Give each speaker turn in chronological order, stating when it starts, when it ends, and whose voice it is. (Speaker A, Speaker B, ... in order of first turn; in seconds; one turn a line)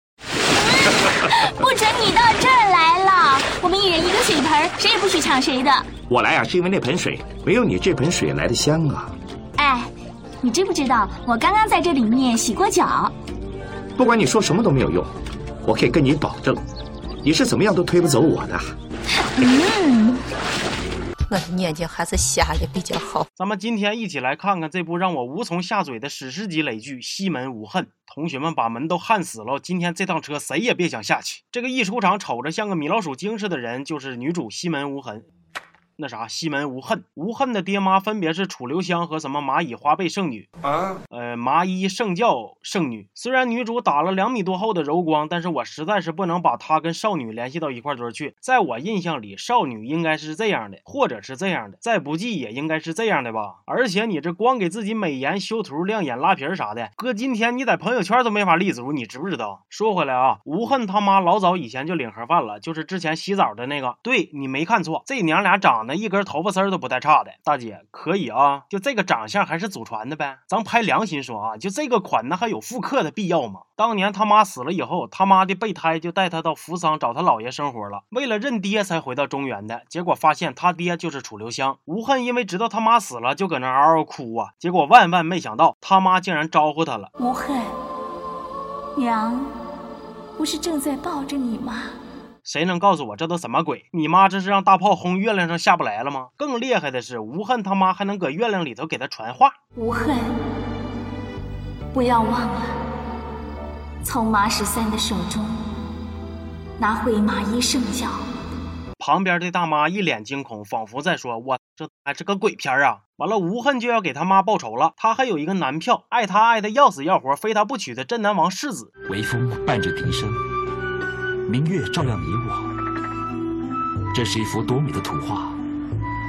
Speaker A: 0.8-5.9
Speaker B: 6.1-9.1
Speaker A: 9.6-9.9
Speaker A: 10.4-13.1
Speaker B: 14.0-15.1
Speaker B: 15.6-16.6
Speaker B: 17.2-18.7
Speaker A: 19.4-20.2
Speaker C: 21.3-23.3
Speaker D: 23.4-35.3
Speaker D: 36.0-40.5
Speaker D: 41.1-87.1
Speaker A: 87.2-87.7
Speaker A: 89.0-89.5
Speaker A: 90.4-92.0
Speaker D: 92.5-99.5
Speaker A: 99.8-100.3
Speaker A: 101.9-102.8
Speaker A: 104.0-105.6
Speaker A: 106.8-108.3
Speaker D: 109.0-118.9
Speaker E: 119.1-120.4
Speaker E: 121.5-122.7
Speaker E: 124.1-125.6